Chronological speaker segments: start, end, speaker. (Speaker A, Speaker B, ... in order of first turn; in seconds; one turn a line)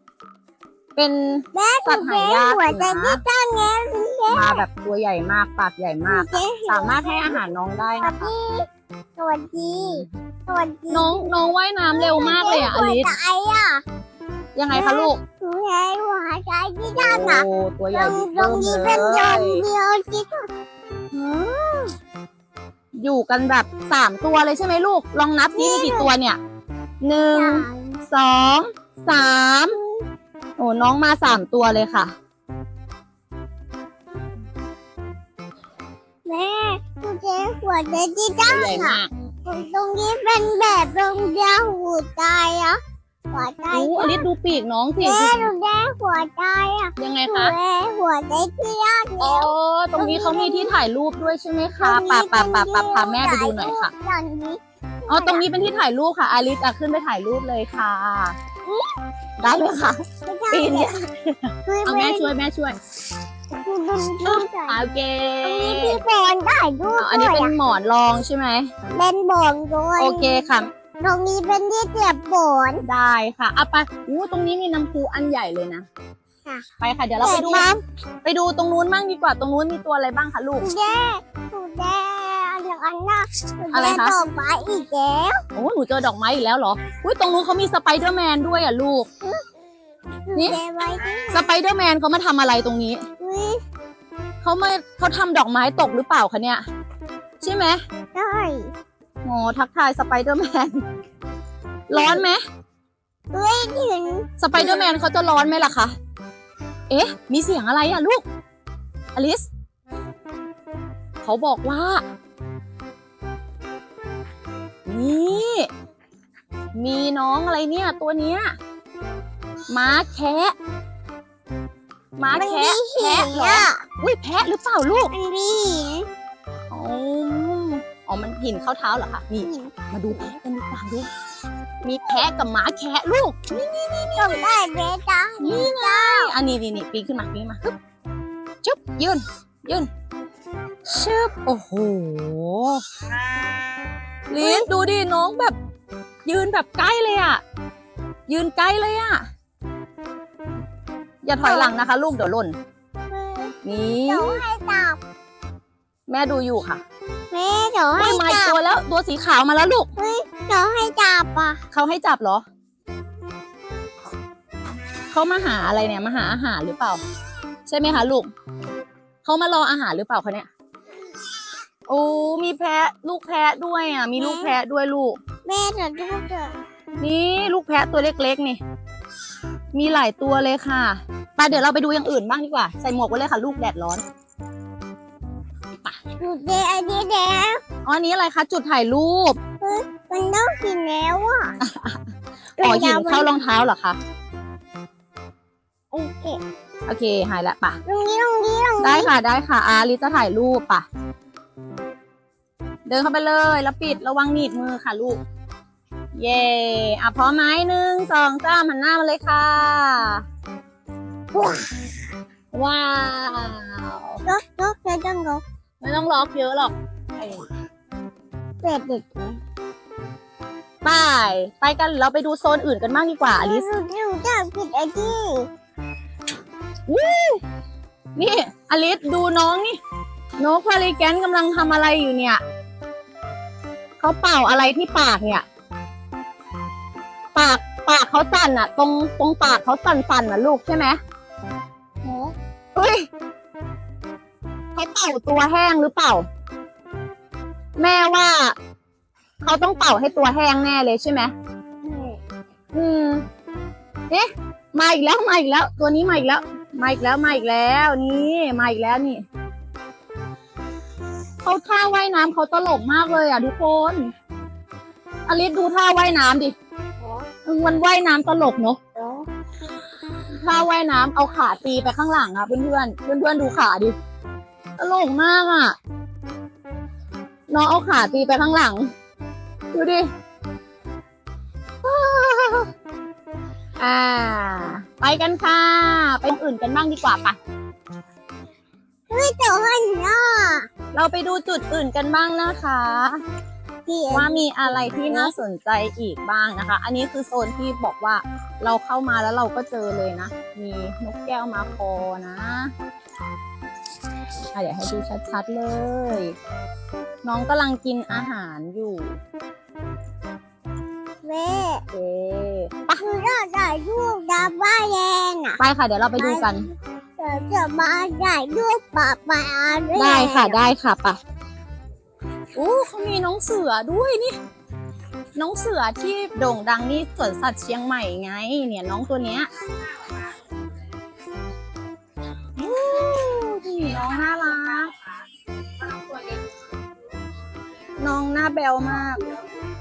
Speaker A: 0.9-3.2
Speaker B: 1.5-4.7
Speaker A: 4.3-8.3
Speaker B: 6.0-7.4
Speaker B: 8.0-11.3
Speaker A: 9.7-10.1
Speaker A: 10.9-13.1
Speaker B: 11.9-13.8
Speaker A: 14.5-15.2
Speaker B: 14.7-20.5
Speaker A: 16.9-19.6
Speaker B: 21.1-21.6
Speaker A: 21.2-21.8
Speaker A: 23.0-26.4
Speaker B: 25.5-26.1
Speaker A: 27.0-29.8
Speaker B: 27.3-27.9
Speaker A: 30.6-32.1
Speaker B: 36.2-42.8
Speaker A: 38.4-39.1
Speaker B: 43.3-44.3
Speaker A: 43.7-45.5
Speaker B: 45.0-50.8
Speaker A: 47.0-47.5
Speaker A: 49.2-53.9
Speaker B: 51.8-55.5
Speaker A: 55.1-58.4
Speaker B: 58.7-59.0
Speaker A: 59.4-62.8
Speaker B: 60.2-60.9
Speaker B: 61.6-62.3
Speaker B: 63.5-64.8
Speaker A: 64.2-66.0
Speaker B: 65.4-67.5
Speaker A: 67.0-68.7
Speaker B: 68.9-70.5
Speaker A: 70.0-70.7
Speaker B: 71.0-72.8
Speaker A: 72.8-75.8
Speaker A: 76.8-77.7
Speaker B: 77.2-77.8
Speaker A: 78.2-80.7
Speaker B: 80.6-85.4
Speaker A: 83.7-84.2
Speaker A: 85.5-89.1
Speaker B: 90.3-91.5
Speaker A: 91.3-93.0
Speaker B: 93.2-93.6
Speaker A: 94.4-96.6
Speaker A: 97.4-97.8
Speaker B: 98.1-98.7
Speaker A: 99.2-100.8
Speaker A: 101.9-102.4
Speaker B: 101.9-102.2
Speaker B: 103.3-104.9
Speaker A: 104.4-105.9
Speaker A: 106.9-108.2
Speaker A: 109.1-109.5
Speaker A: 111.2-112.0
Speaker A: 114.8-115.7
Speaker A: 116.7-118.5
Speaker A: 119.7-120.5
Speaker A: 122.2-125.1
Speaker B: 122.3-123.8
Speaker B: 125.1-126.1
Speaker A: 126.7-131.1
Speaker B: 129.4-130.3
Speaker A: 131.8-134.4
Speaker B: 134.1-136.3
Speaker A: 135.4-137.7
Speaker A: 138.6-139.9
Speaker A: 140.8-142.8
Speaker A: 144.3-145.6
Speaker B: 144.4-144.7
Speaker A: 146.2-147.4
Speaker A: 148.3-149.2
Speaker A: 151.2-152.6
Speaker B: 151.4-151.8
Speaker B: 153.1-153.5
Speaker A: 153.6-154.4
Speaker B: 154.1-155.0
Speaker A: 156.1-156.8
Speaker B: 157.3-158.6
Speaker A: 158.0-159.9
Speaker B: 159.9-161.6
Speaker A: 161.7-162.4
Speaker A: 165.1-167.0
Speaker A: 167.7-168.3
Speaker A: 169.2-170.5
Speaker A: 171.9-175.2
Speaker B: 174.2-174.6
Speaker B: 175.4-176.5
Speaker A: 177.0-178.6
Speaker A: 179.7-184.0
Speaker B: 186.2-187.6
Speaker A: 187.8-189.4
Speaker B: 189.6-191.6
Speaker A: 191.6-192.0
Speaker B: 192.6-193.3
Speaker A: 192.6-194.0
Speaker B: 195.9-196.4
Speaker A: 196.8-197.8
Speaker B: 197.8-199.1
Speaker A: 198.8-200.8
Speaker A: 202.8-205.2
Speaker A: 206.1-210.2
Speaker A: 212.5-214.2
Speaker B: 214.2-215.4
Speaker A: 215.8-217.5
Speaker B: 218.6-219.4
Speaker A: 220.8-223.7
Speaker B: 223.3-225.5
Speaker A: 226.9-227.4
Speaker A: 228.2-229.8
Speaker A: 230.4-232.4
Speaker A: 234.0-235.4
Speaker A: 237.3-241.0
Speaker B: 242.0-242.3
Speaker A: 242.7-243.1
Speaker A: 244.8-246.2
Speaker A: 247.8-248.6
Speaker A: 249.4-251.3
Speaker B: 251.8-252.2
Speaker A: 252.7-253.2
Speaker A: 254.1-259.2
Speaker A: 261.4-264.1
Speaker A: 265.3-266.5
Speaker A: 267.4-268.8
Speaker B: 268.9-269.2
Speaker A: 270.4-273.9
Speaker A: 274.8-275.8
Speaker A: 277.5-278.9
Speaker A: 279.7-280.0
Speaker A: 281.8-282.7
Speaker A: 283.8-287.4
Speaker B: 289.1-290.7
Speaker A: 290.9-293.2
Speaker B: 293.9-295.3
Speaker A: 294.1-302.7
Speaker A: 304.5-306.3
Speaker A: 307.2-309.2
Speaker B: 311.2-311.8
Speaker A: 311.9-313.0
Speaker B: 313.0-315.6
Speaker A: 315.6-316.7
Speaker B: 316.1-316.5
Speaker B: 317.2-320.6
Speaker A: 319.9-321.2
Speaker A: 322.5-324.4
Speaker A: 325.4-329.5
Speaker A: 332.6-334.9
Speaker A: 338.0-339.2